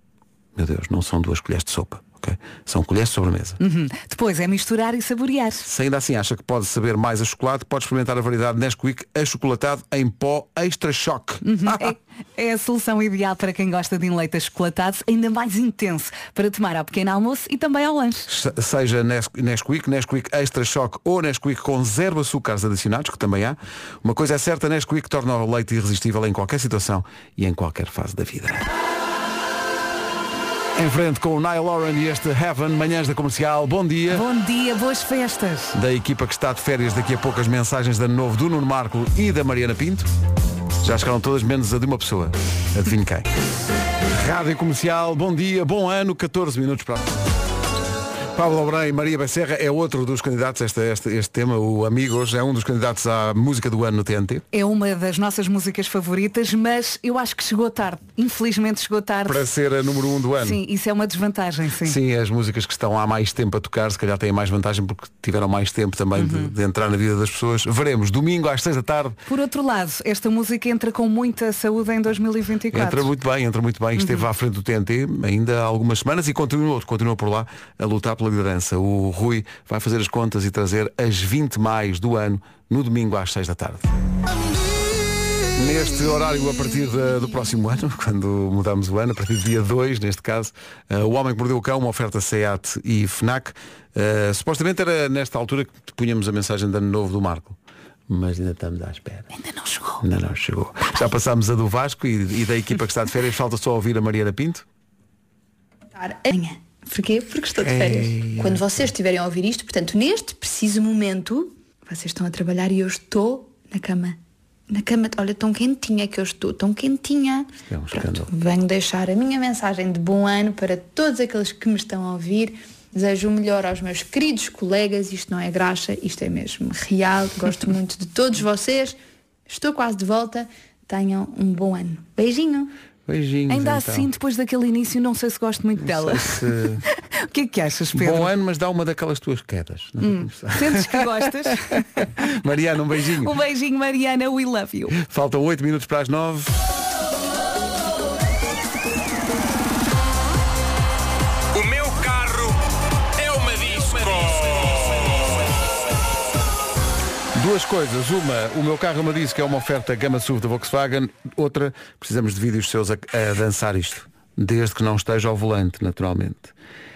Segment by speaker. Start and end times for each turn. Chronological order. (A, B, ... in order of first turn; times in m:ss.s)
0:00.6-0:03.6 A
0:03.6-0:05.7 B
0:05.6-0:12.0 A
0:11.4-0:18.3 B
0:18.3-0:28.7 A
0:30.8-0:34.2 A
0:34.1-0:35.8 B
0:35.7-0:40.1 A
0:40.8-0:43.3 A
0:44.2-0:47.1 A
0:48.4-0:54.4 A
0:54.5-0:59.4 B
0:59.3-1:00.6 A
1:00.4-1:02.0 B
1:01.8-1:09.2 A
1:06.2-1:06.5 B
1:09.3-1:13.1 B
1:12.7-1:23.9 A
1:14.0-1:14.3 B
1:25.6-1:37.6 A
1:38.1-1:39.3 A
1:39.3-1:40.0 B
1:40.0-1:44.6 A
1:46.0-1:54.2 C
1:47.6-1:48.9 A
1:54.7-2:12.8 C
1:57.7-1:58.3 A
2:13.1-2:14.1 A
2:13.5-2:16.4 B
2:15.8-2:16.8 A
2:17.2-2:18.3 B
2:17.9-2:21.0 A
2:20.0-2:21.8 B
2:22.0-2:23.3 A
2:23.2-2:25.0 B
2:25.0-2:26.6 A
2:31.5-2:32.6 D
2:33.2-2:35.3 D
2:37.4-2:46.5 A